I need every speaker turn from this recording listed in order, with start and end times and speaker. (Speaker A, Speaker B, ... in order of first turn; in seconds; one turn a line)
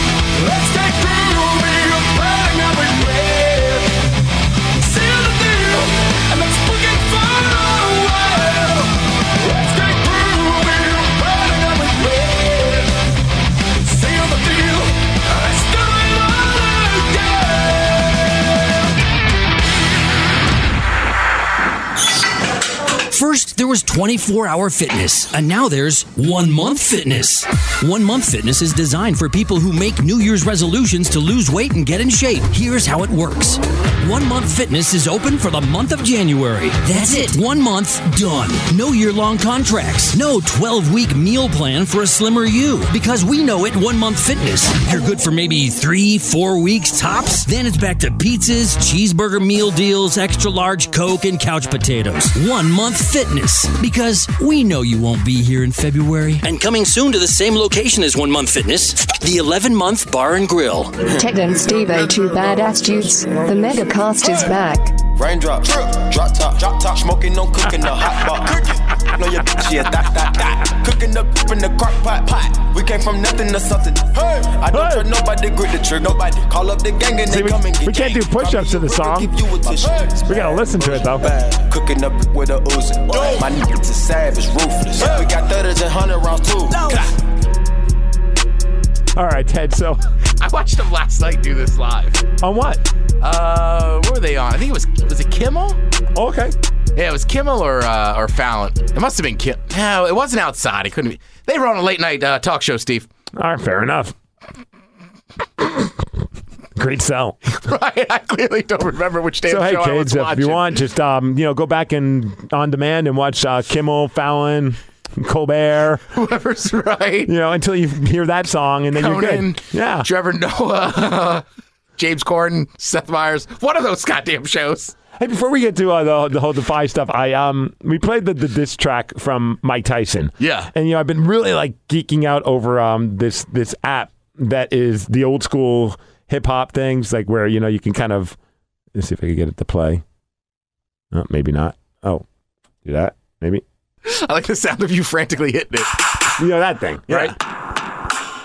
Speaker A: 23.1-61.0
Speaker B: 61.1-64.9
Speaker C: 65.2-87.1
Speaker D: 74.7-75.1
Speaker D: 77.3-79.3
Speaker D: 80.2-81.3
Speaker D: 89.1-90.0
Speaker E: 90.4-92.2
Speaker D: 92.4-92.8
Speaker E: 93.2-95.8
Speaker D: 96.1-96.5
Speaker E: 97.0-103.1
Speaker D: 103.3-104.1
Speaker D: 105.6-105.9
Speaker D: 106.8-107.4
Speaker E: 107.5-110.7
Speaker D: 109.5-116.0
Speaker E: 116.1-117.3
Speaker D: 117.2-120.1
Speaker E: 118.9-121.4
Speaker E: 122.0-124.9
Speaker D: 125.2-138.4
Speaker E: 130.4-130.7
Speaker D: 138.9-140.0
Speaker D: 141.1-142.2
Speaker D: 142.8-143.6
Speaker E: 144.0-146.0
Speaker D: 146.4-147.3
Speaker E: 147.1-147.3